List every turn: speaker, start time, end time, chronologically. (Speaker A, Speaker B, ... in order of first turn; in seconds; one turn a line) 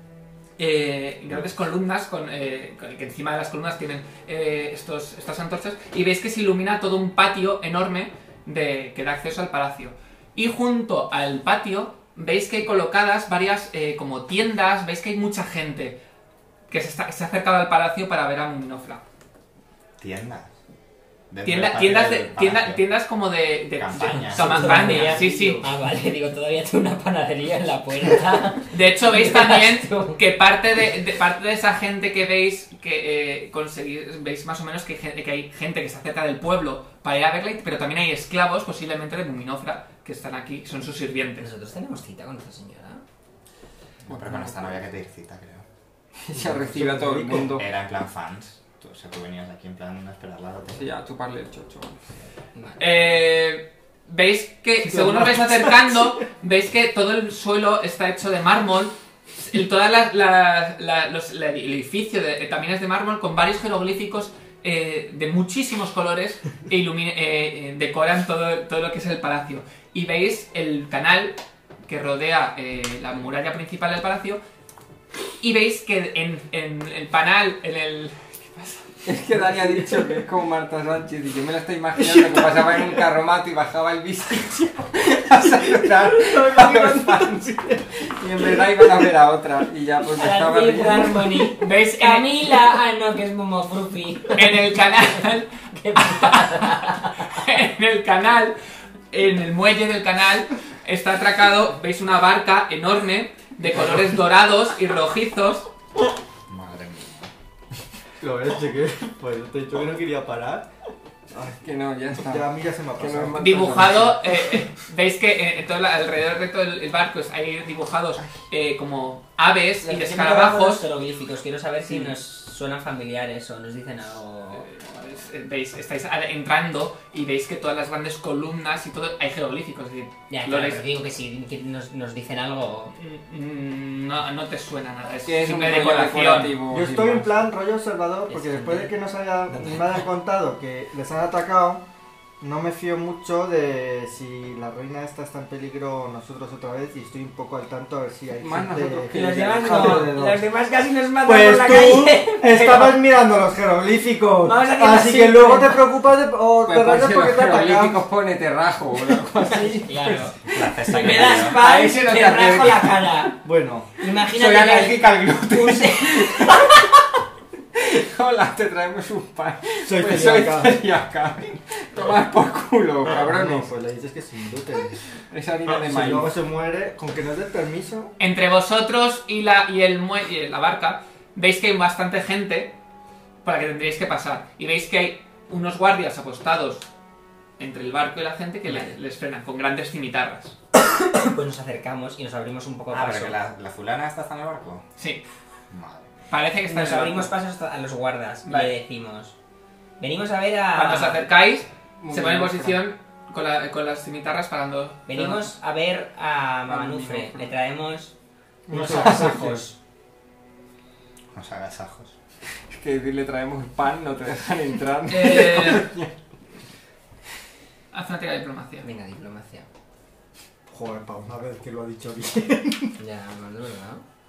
Speaker A: 0.6-16.0
Speaker A: 16.7-19.0
Speaker B: 20.0-20.5
Speaker B: 21.3-22.8
Speaker A: 21.4-25.6
Speaker B: 23.7-24.7
Speaker C: 24.1-30.2
Speaker D: 24.4-25.7
Speaker A: 28.7-41.4
Speaker C: 41.4-43.0
Speaker B: 44.0-45.6
Speaker E: 44.1-44.8
Speaker E: 46.2-47.7
Speaker D: 46.3-47.6
Speaker B: 47.5-50.8
Speaker E: 50.7-52.0
Speaker C: 52.5-53.0
Speaker A: 52.8-74.4
Speaker D: 54.8-55.8
Speaker A: 75.4-78.8
Speaker E: 79.0-91.3
Speaker D: 79.3-80.2
Speaker D: 82.0-83.0
Speaker D: 85.4-89.1
Speaker C: 90.1-94.5
Speaker A: 91.6-92.3
Speaker A: 94.3-98.5
Speaker C: 95.7-97.3
Speaker A: 99.1-105.7
Speaker B: 106.5-107.3
Speaker D: 108.2-110.7
Speaker E: 111.4-114.2
Speaker D: 112.1-114.1
Speaker A: 113.4-120.8
Speaker C: 119.8-124.7
Speaker E: 121.8-122.1
Speaker A: 124.6-130.8
Speaker C: 130.3-132.9
Speaker A: 132.9-136.6
Speaker E: 135.2-137.3
Speaker D: 136.7-141.8
Speaker C: 138.3-138.9
Speaker C: 139.5-140.0
Speaker D: 142.4-150.4
Speaker E: 148.3-150.2
Speaker C: 149.1-153.0
Speaker D: 151.2-158.0
Speaker C: 154.4-155.9
Speaker E: 156.6-163.0
Speaker C: 159.4-163.4
Speaker B: 160.5-161.6
Speaker D: 163.4-163.9
Speaker C: 164.0-166.8
Speaker E: 164.3-166.8
Speaker E: 167.7-173.7
Speaker D: 169.8-170.8
Speaker D: 173.1-175.0
Speaker E: 175.3-176.3
Speaker D: 175.7-178.1
Speaker A: 178.2-182.7
Speaker A: 183.4-186.8
Speaker A: 187.6-190.6
Speaker C: 188.7-188.9
Speaker C: 191.0-193.4
Speaker B: 192.9-194.8
Speaker B: 195.7-196.1
Speaker A: 196.3-197.3
Speaker C: 196.7-199.3
Speaker A: 198.4-198.7
Speaker C: 200.0-201.2
Speaker A: 200.7-205.5
Speaker E: 202.0-202.8
Speaker C: 205.1-208.1
Speaker E: 206.7-207.5
Speaker D: 208.7-209.4
Speaker C: 208.7-209.8
Speaker E: 208.8-209.6
Speaker B: 211.3-212.1
Speaker E: 212.7-216.1
Speaker A: 215.1-215.9
Speaker A: 217.9-218.8
Speaker C: 218.8-219.7
Speaker D: 220.7-222.9
Speaker C: 223.0-224.0